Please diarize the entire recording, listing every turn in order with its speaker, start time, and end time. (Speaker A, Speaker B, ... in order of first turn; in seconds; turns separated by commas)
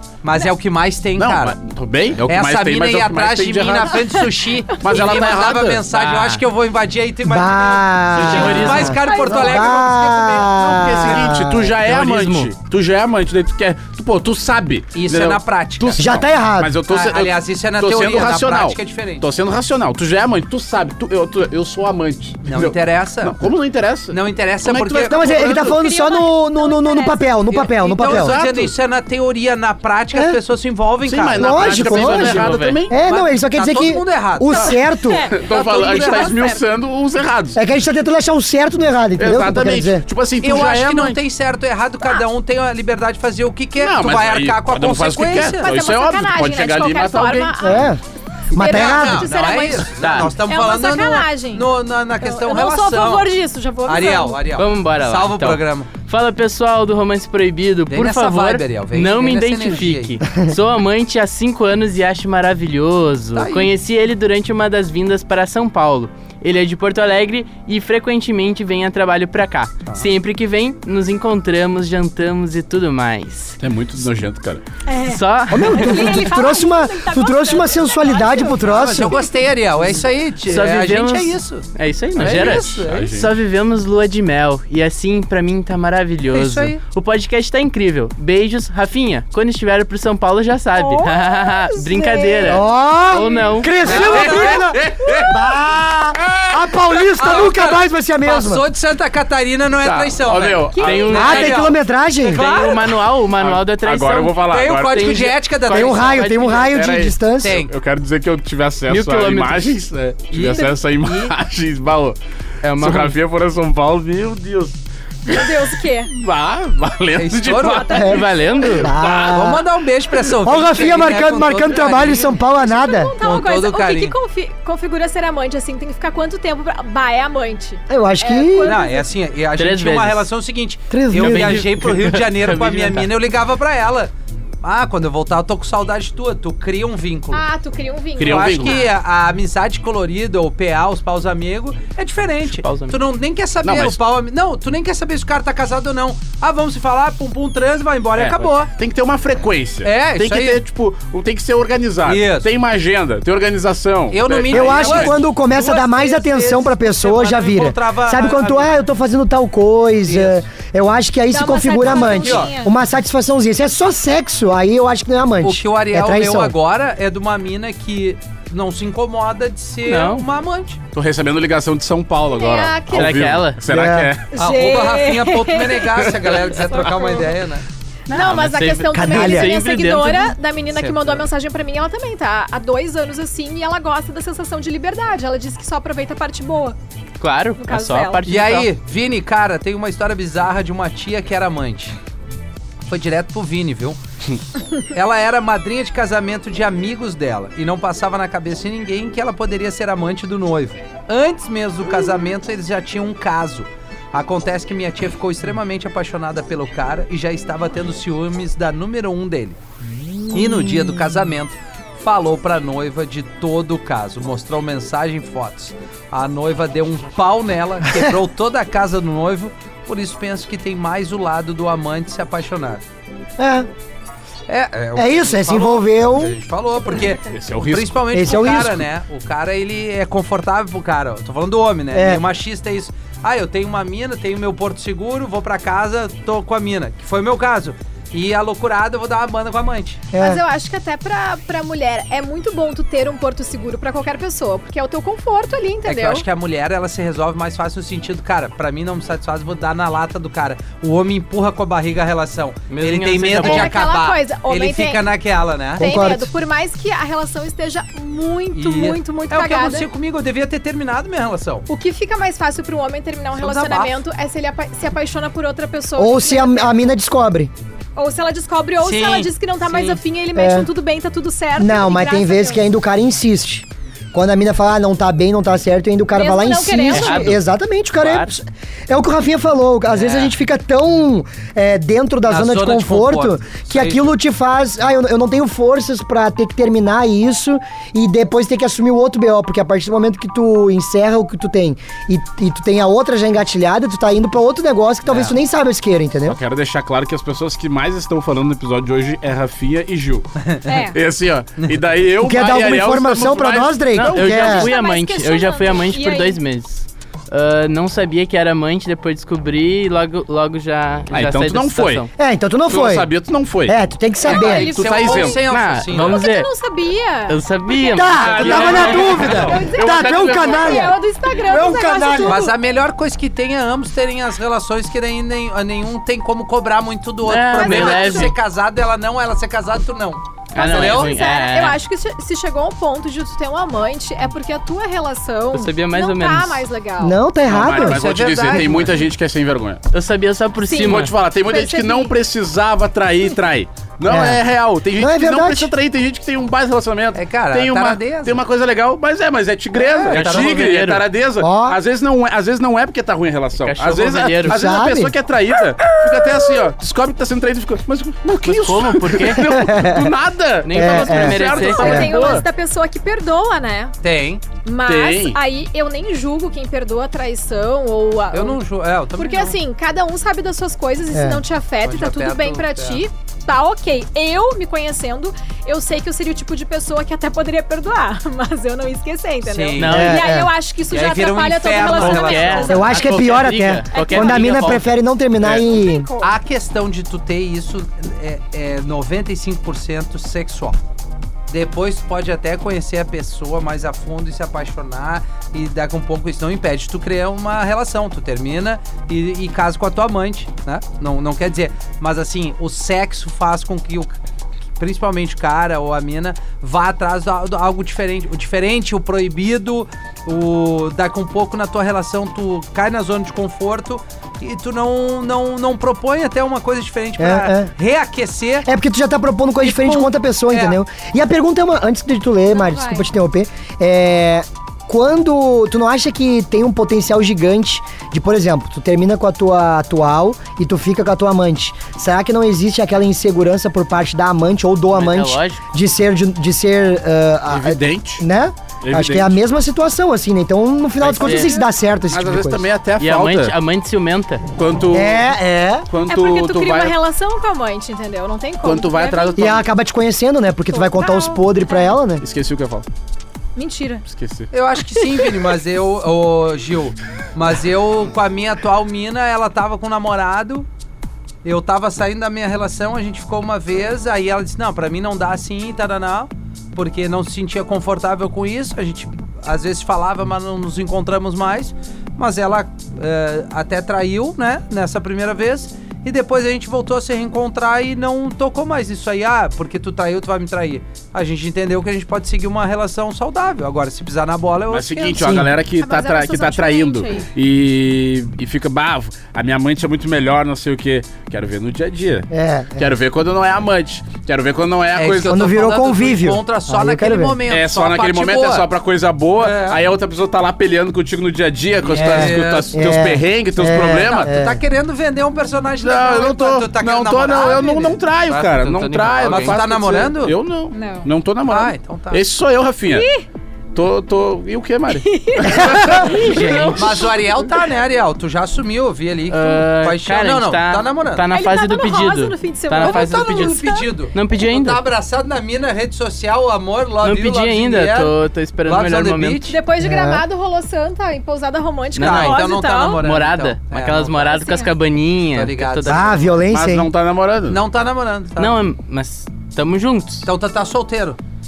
Speaker A: 0.2-1.6, Speaker B: 1.2-4.1, Speaker A: 2.2-10.6, Speaker B: 4.8-5.9, Speaker C: 5.9-6.4, Speaker D: 7.2-11.8, Speaker C: 8.2-9.0, Speaker B: 8.3-8.9, Speaker E: 9.0-9.8, Speaker B: 10.5-25.8, Speaker C: 11.8-12.5, Speaker A: 14.9-16.1, Speaker D: 16.0-16.8, Speaker A: 16.9-19.2, Speaker A: 22.4-23.4, Speaker A: 24.1-25.6, Speaker D: 25.1-28.4, Speaker E: 25.4-27.3, Speaker A: 27.5-31.9, Speaker B: 28.0-28.7, Speaker B: 31.1-33.0, Speaker D: 31.3-35.3, Speaker C: 31.6-32.8, Speaker A: 32.9-34.8, Speaker E: 34.6-36.6, Speaker B: 35.3-37.6, Speaker A: 35.4-36.5, Speaker D: 37.6-40.1, Speaker B: 39.2-41.2, Speaker A: 40.4-45.7, Speaker B: 43.8-47.9, Speaker E: 45.6-47.9, Speaker D: 47.6-48.0, Speaker E: 48.5-51.7, Speaker D: 48.5-49.3, Speaker A: 48.6-53.3, Speaker C: 50.0-50.3, Speaker E: 52.2-54.4, Speaker A: 53.9-55.9, Speaker C: 54.5-73.6, Speaker A: 57.9-60.2, Speaker A: 63.4-63.7, Speaker B: 73.6-74.6, Speaker E: 74.9-79.4, Speaker C: 75.1-76.0, Speaker D: 75.5-79.2, Speaker A: 78.6-83.2, Speaker C: 80.5-93.9, Speaker B: 82.2-83.3, Speaker A: 86.3-86.8, Speaker E: 90.8-92.6, Speaker D: 92.5-98.6, Speaker E: 93.2-93.4, Speaker A: 93.8-95.3, Speaker B: 93.8-95.4, Speaker A: 97.0-103.0, Speaker B: 99.8-101.5, Speaker E: 100.7-101.4, Speaker C: 100.8-101.7, Speaker D: 101.1-102.5, Speaker C: 102.3-104.4, Speaker B: 103.4-105.3, Speaker A: 104.4-106.3, Speaker C: 104.9-106.7, Speaker D: 105.7-107.6, Speaker B: 106.5-112.2, Speaker A: 107.3-107.7, Speaker C: 108.9-109.8, Speaker A: 110.3-111.3, Speaker C: 112.6-113.2, Speaker B: 112.8-118.2, Speaker E: 115.3-116.1, Speaker A: 117.2-118.1, Speaker E: 117.7-118.3, Speaker D: 118.0-119.7, Speaker C: 118.0-118.9, Speaker A: 119.0-122.4, Speaker D: 120.3-123.2, Speaker E: 122.6-129.1, Speaker A: 123.2-124.2, Speaker D: 127.9-128.8, Speaker A: 128.6-134.1, Speaker C: 129.6-130.3, Speaker D: 130.9-131.6, Speaker C: 131.2-133.1, Speaker A: 134.6-137.5, Speaker E: 137.3-138.9, Speaker B: 138.2-138.8, Speaker A: 138.2-148.7, Speaker C: 142.5-143.0, Speaker B: 143.6-144.0, Speaker B: 148.2-155.2, Speaker A: 149.8-150.6, Speaker A: 152.0-152.5, Speaker A: 154.1-158.8, Speaker D: 154.5-166.5, Speaker A: 160.1-160.4, Speaker E: 161.3-162.7, Speaker A: 161.9-162.5, Speaker A: 165.4-170.8, Speaker C: 169.9-170.2, Speaker B: 170.9-174.3, Speaker E: 172.3-173.2, Speaker C: 172.9-173.6, Speaker D: 173.7-174.1, Speaker E: 174.3-176.1, Speaker A: 174.4-177.7, Speaker E: 176.7-177.3, Speaker C: 178.1-180.4, Speaker E: 178.1-186.8, Speaker D: 178.9-179.5, Speaker A: 180.7-181.2, Speaker C: 187.2-188.7, Speaker E: 187.6-188.2, Speaker A: 188.3-191.9, Speaker A: 192.9-194.0, Speaker A: 194.9-209.6, Speaker A: 210.3-222.8, Speaker D: 223.4-223.7, Speaker A: 224.5-240.1, Speaker D: 225.0-226.4, Speaker B: 227.3-228.1, Speaker D: 228.1-228.8, Speaker D: 231.9-232.2, Speaker D: 240.1-240.4, Speaker E: 240.2-246.2, Speaker A: 245.8-255.8, Speaker C: 252.7-253.8, Speaker E: 253.4-255.1, Speaker D: 255.8-256.3, Speaker E: 255.8-259.9, Speaker A: 258.5-261.7, Speaker E: 261.7-266.9, Speaker A: 263.4-264.0, Speaker D: 266.0-267.5, Speaker E: 268.0-272.6, Speaker A: 268.8-270.0, Speaker D: 270.4-270.7, Speaker D: 271.6-296.4, Speaker E: 276.1-277.4, Speaker C: 276.9-277.4, Speaker C: 278.0-278.3, Speaker A: 282.3-284.1, Speaker B: 296.2-304.7, Speaker E: 300.6-301.0, Speaker D: 302.2-304.7, Speaker C: 303.9-312.1, Speaker E: 304.4-306.4, Speaker B: 311.1-312.1, Speaker D: 312.2-313.1, Speaker B: 312.7-313.8, Speaker D: 313.7-314.7, Speaker E: 314.2-322.5, Speaker A: 314.3-316.2, Speaker B: 314.3-315.5, Speaker C: 315.5-316.5, Speaker C: 317.3-319.4, Speaker D: 317.9-322.4, Speaker B: 318.1-320.9, Speaker A: 322.2-331.1, Speaker C: 327.2-328.4, Speaker E: 327.6-328.4, Speaker C: 330.6-331.8, Speaker E: 330.6-337.2, Speaker C: 335.5-336.6, Speaker D: 337.0-338.0, Speaker B: 337.5-339.9, Speaker A: 337.7-339.0, Speaker C: 339.9-341.1, Speaker E: 340.6-342.1, Speaker B: 340.9-362.4, Speaker D: 344.1-344.4, Speaker D: 344.9-345.7, Speaker A: 347.1-348.4, Speaker A: 349.8-350.8, Speaker C: 350.1-351.1, Speaker D: 351.4-351.8, Speaker C: 353.6-354.6, Speaker D: 354.4-355.1, Speaker C: 358.4-359.4, Speaker D: 359.3-360.1, Speaker C: 360.6-362.4, Speaker D: 360.7-362.1, Speaker E: 361.3-363.9, Speaker A: 364.0-364.4, Speaker E: 364.6-368.6, Speaker B: 364.9-365.4, Speaker A: 368.3-369.6, Speaker E: 369.2-383.1, Speaker D: 371.1-371.4, Speaker A: 371.8-373.0, Speaker A: 379.4-380.0, Speaker C: 379.8-380.3, Speaker D: 379.8-380.5, Speaker A: 380.9-383.0, Speaker C: 381.7-384.9, Speaker D: 382.7-386.1, Speaker E: 383.9-384.9, Speaker E: 385.4-386.3, Speaker A: 386.2-390.8, Speaker A: 391.5-404.2, Speaker A: 404.8-418.7, Speaker D: 417.2-417.7, Speaker D: 418.6-442.6, Speaker A: 419.6-420.8, Speaker E: 422.5-423.1, Speaker C: 434.9-435.6, Speaker B: 437.5-438.2, Speaker B: 438.8-439.4, Speaker C: 441.0-441.5, Speaker E: 441.2-441.7, Speaker B: 442.1-443.6, Speaker C: 443.0-444.4, Speaker B: 444.5-445.3, Speaker D: 444.9-445.9, Speaker B: 445.9-447.0, Speaker E: 446.1-449.6, Speaker B: 448.6-449.6, Speaker D: 449.4-452.2, Speaker E: 450.7-451.9, Speaker B: 452.2-452.9, Speaker E: 453.6-454.1, Speaker B: 454.1-454.5, Speaker A: 454.5-460.7, Speaker E: 455.0-455.3, Speaker A: 461.4-485.4, Speaker B: 484.7-495.5, Speaker D: 485.2-485.5, Speaker E: 485.8-487.3, Speaker D: 492.3-492.9, Speaker A: 494.9-498.7, Speaker D: 495.2-497.4, Speaker B: 497.5-504.3, Speaker A: 499.4-499.8, Speaker A: 501.8-502.7, Speaker D: 501.9-504.6, Speaker A: 504.0-510.4, Speaker B: 505.8-513.1, Speaker C: 508.3-509.6, Speaker E: 510.7-511.1, Speaker A: 511.5-512.2, Speaker E: 512.9-513.3, Speaker B: 513.7-516.7, Speaker E: 514.9-516.8, Speaker C: 515.9-517.1, Speaker A: 516.7-521.2, Speaker C: 519.3-524.8, Speaker E: 521.3-523.9, Speaker A: 522.8-529.5, Speaker C: 527.0-529.5, Speaker E: 529.5-533.0, Speaker D: 529.8-530.2, Speaker C: 532.0-532.4, Speaker A: 532.0-534.4, Speaker C: 533.0-536.3, Speaker E: 534.2-534.7, Speaker A: 535.3-536.3, Speaker D: 535.9-536.9, Speaker B: 536.5-537.6, Speaker A: 537.5-538.6, Speaker C: 538.4-540.3, Speaker A: 540.2-541.2